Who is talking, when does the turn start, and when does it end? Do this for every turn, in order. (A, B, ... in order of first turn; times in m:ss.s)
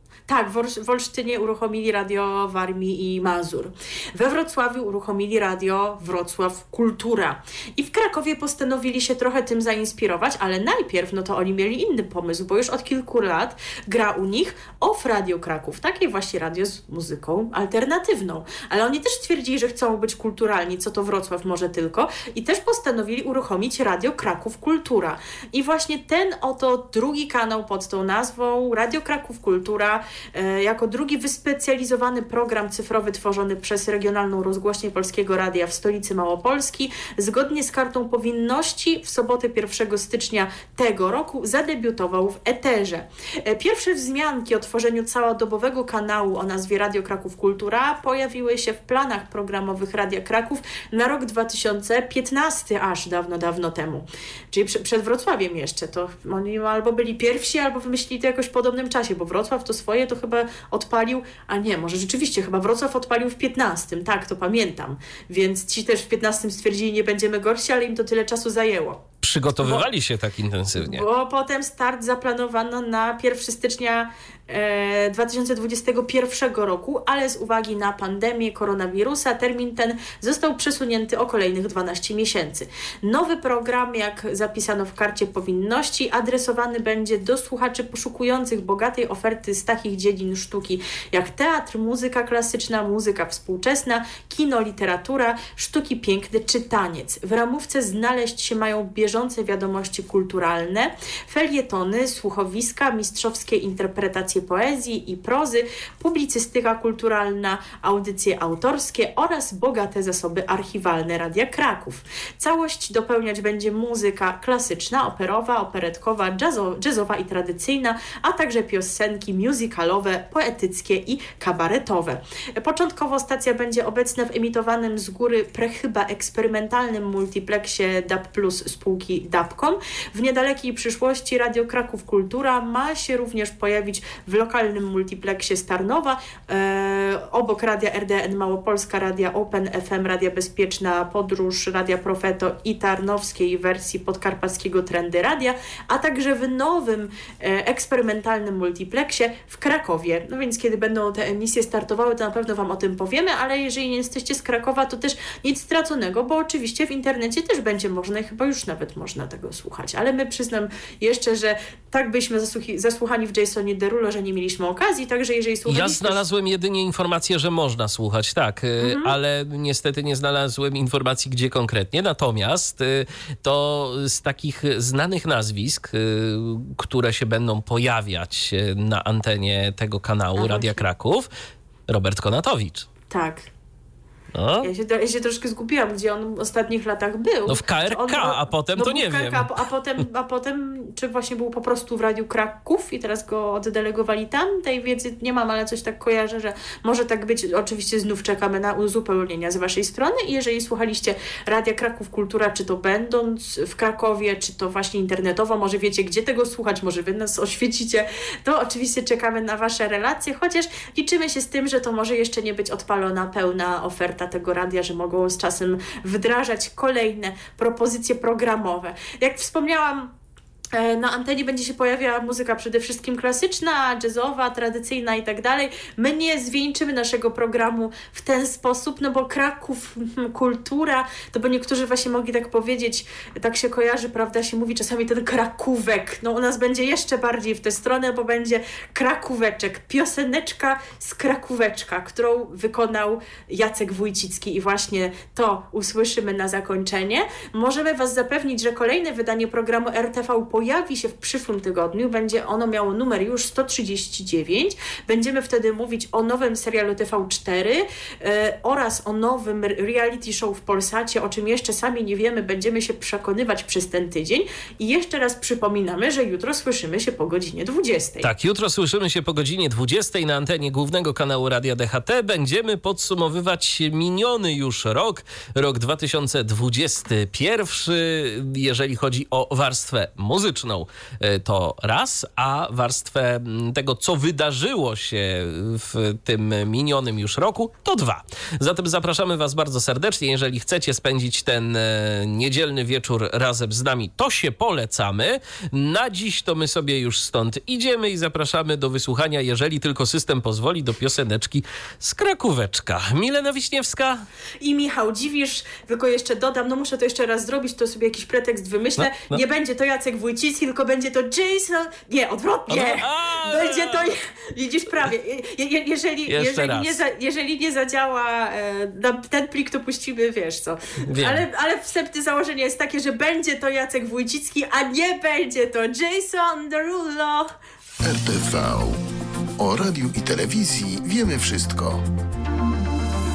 0:00.3-1:09.0 A
1:09.2-1:11.0 B
1:09.6-1:09.9 A
1:10.8-2:46.2 A
2:45.7-3:01.3 B
2:48.8-2:49.2 A
3:00.4-3:00.8 A
3:01.9-3:02.9 B
3:03.1-3:03.5 A
3:04.3-3:04.7 B
3:04.6-3:40.1 A
3:07.5-3:09.6 B
3:40.7-4:28.3 A
4:28.2-5:04.2 B
5:04.6-5:27.5 A
5:09.0-5:09.4 B
5:12.7-5:14.1 B
5:16.3-5:17.0 B
5:21.1-5:21.4 B
5:28.0-5:29.0 C
5:29.6-5:32.0 C